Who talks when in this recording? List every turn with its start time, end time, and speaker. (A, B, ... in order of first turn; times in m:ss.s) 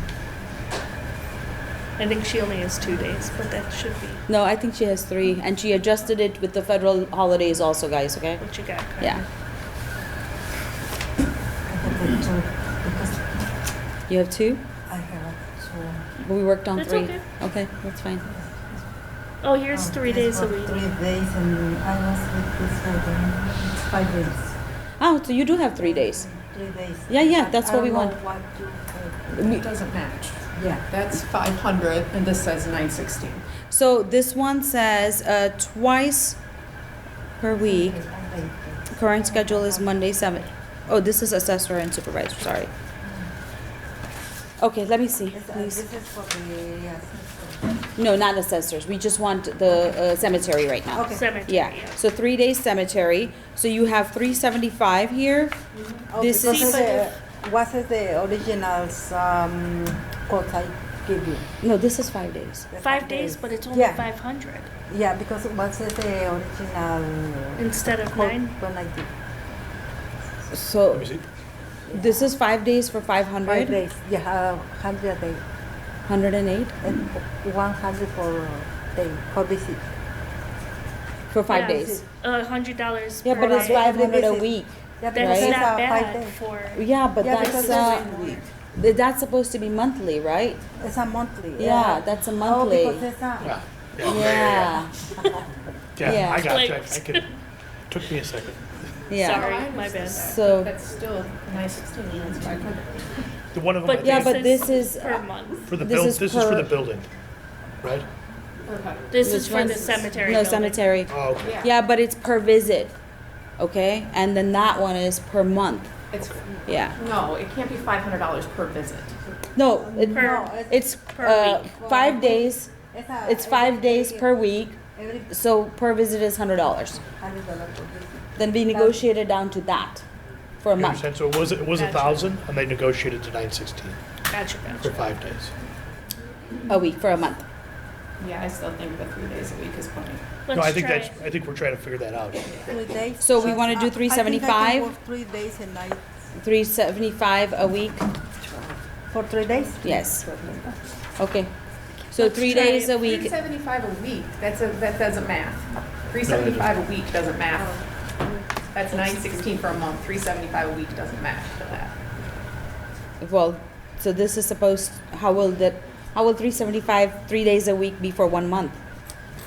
0:02.0-0:04.2 A
0:04.3-0:08.4 B
0:08.4-0:09.2 A
0:11.6-0:13.2 C
0:14.1-0:14.6 B
0:14.9-0:16.0 C
0:16.2-0:18.2 B
0:16.8-0:17.2 A
0:19.4-0:20.9 A
0:19.7-0:24.6 C
0:25.0-0:26.3 B
0:25.8-0:29.4 C
0:27.1-0:28.2 B
0:29.3-0:33.4 D
0:29.4-0:29.6 B
0:30.5-0:30.8 C
0:33.7-0:36.4 B
0:37.4-0:38.0 B
0:37.6-0:39.8 C
0:38.9-0:42.7 B
0:44.6-0:45.8 B
0:45.3-0:47.7 C
0:48.0-0:55.6 B
0:50.9-0:51.2 C
0:51.0-0:52.0 A
0:56.1-1:01.5 C
0:56.2-0:57.0 B
0:56.4-0:57.1 A
1:01.6-1:02.7 B
1:02.7-1:04.0 C
1:02.8-1:04.7 A
1:04.9-1:09.1 C
1:07.6-1:08.5 A
1:10.5-1:11.1 B
1:10.9-1:11.2 E
1:11.9-1:13.8 B
1:13.4-1:15.4 C
1:16.0-1:16.8 B
1:16.8-1:19.9 C
1:21.3-1:22.0 B
1:21.5-1:24.1 A
1:21.5-1:22.0 C
1:23.2-1:25.6 B
1:23.3-1:26.3 C
1:25.1-1:27.9 A
1:26.7-1:28.1 B
1:27.2-1:28.4 C
1:27.4-1:28.4 D
1:28.7-1:30.6 B
1:30.8-1:33.5 C
1:31.6-1:33.0 B
1:33.4-1:34.8 E
1:34.0-1:34.9 B
1:36.0-1:37.3 E
1:36.0-1:36.5 B
1:36.4-1:37.3 A
1:37.9-1:39.0 E
1:39.1-1:39.5 B
1:39.1-1:40.4 A
1:39.2-1:43.3 D
1:40.2-1:40.7 B
1:43.5-1:44.6 E
1:43.8-1:45.7 A
1:44.0-1:45.3 B
1:45.7-1:47.1 E
1:45.8-1:46.7 B
1:47.8-1:48.1 E
1:48.6-1:50.0 D
1:49.1-1:50.9 A
1:49.2-1:53.0 B
1:51.1-1:51.6 E
1:51.4-1:51.7 D
1:53.6-1:55.9 B
1:56.1-1:59.2 D
1:56.6-1:57.0 B
1:59.5-2:02.7 B
1:59.9-2:00.8 C
2:00.1-2:00.5 A
2:01.1-2:01.7 A
2:01.8-2:04.3 C
2:03.2-2:07.0 B
2:04.9-2:05.3 C
2:07.1-2:09.0 C
2:08.4-2:10.0 B
2:10.6-2:11.0 B
2:10.7-2:14.0 E
2:11.7-2:12.3 A
2:14.3-2:15.0 A
2:14.8-2:15.5 E
2:16.7-2:17.4 B
2:18.2-2:20.3 D
2:20.4-2:21.1 A
2:20.5-2:22.5 E
2:22.5-2:22.7 D
2:22.6-2:26.0 C
2:23.2-2:24.9 B
2:26.4-2:28.0 B
2:29.1-2:29.8 C
2:29.6-2:30.8 D
2:29.8-2:30.2 B
2:31.2-2:31.5 B
2:32.1-2:33.3 B
2:32.2-2:33.0 A
2:32.4-2:37.8 D
2:36.2-2:36.7 E
2:38.7-2:42.0 D
2:43.2-2:48.8 B